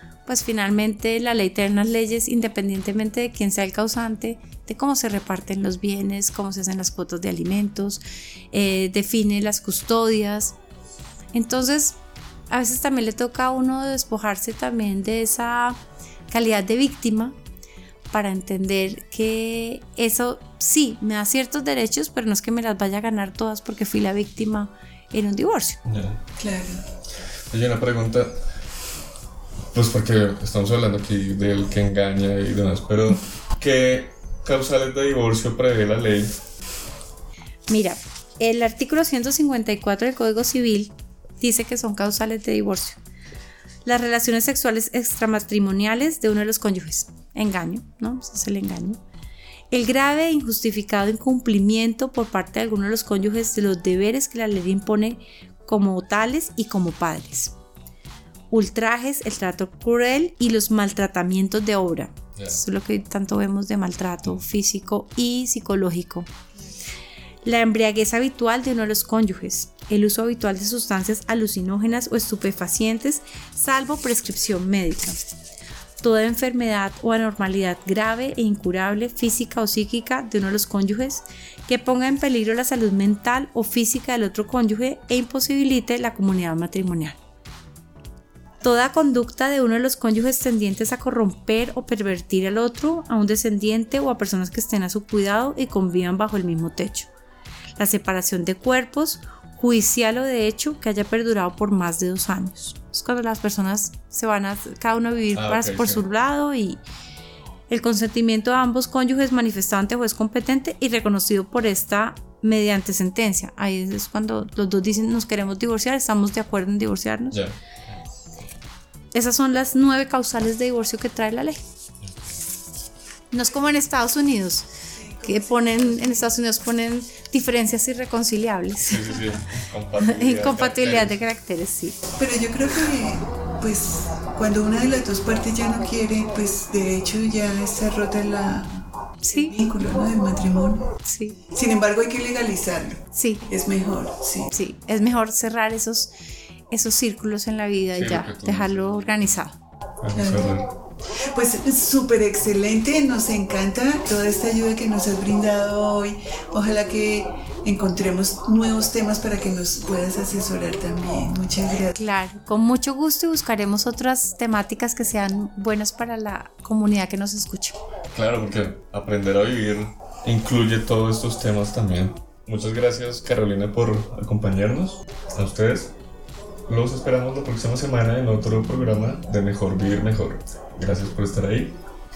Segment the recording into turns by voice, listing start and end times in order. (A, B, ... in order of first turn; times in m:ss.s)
0:00.2-0:10.6 A
0:11.3-0:12.0 A
0:12.5-0:15.8 A
0:16.3-0:17.4 A
0:18.1-0:25.8 A
0:25.8-0:26.2 B
0:26.4-0:26.8 C
0:27.5-0:28.4 B
0:29.7-0:36.3 B
0:37.7-0:43.0 A
0:43.8-0:49.0 A
0:49.7-0:57.5 A
0:58.5-1:06.3 A
1:07.4-1:15.2 A
1:16.0-1:27.2 A
1:28.6-1:37.1 A
1:37.8-1:46.8 A
1:45.3-1:46.0 B
1:47.7-1:57.4 A
1:57.3-1:57.6 B
1:59.1-2:01.6 A
2:02.0-2:02.3 B
2:03.3-2:04.7 A
2:04.9-2:06.4 C
2:05.2-2:09.2 A
2:08.8-2:11.2 B
2:10.0-2:12.0 A
2:12.2-2:20.8 C
2:19.2-2:19.5 A
2:21.0-2:21.4 A
2:21.5-2:24.5 C
2:23.1-2:23.4 A
2:24.5-2:26.1 A
2:26.7-2:29.6 A
2:27.9-2:29.3 B
2:30.0-2:30.7 B
2:30.1-2:30.5 C
2:31.1-2:41.9 C
2:41.9-2:47.8 A
2:48.1-2:55.9 B
2:56.7-3:01.7 B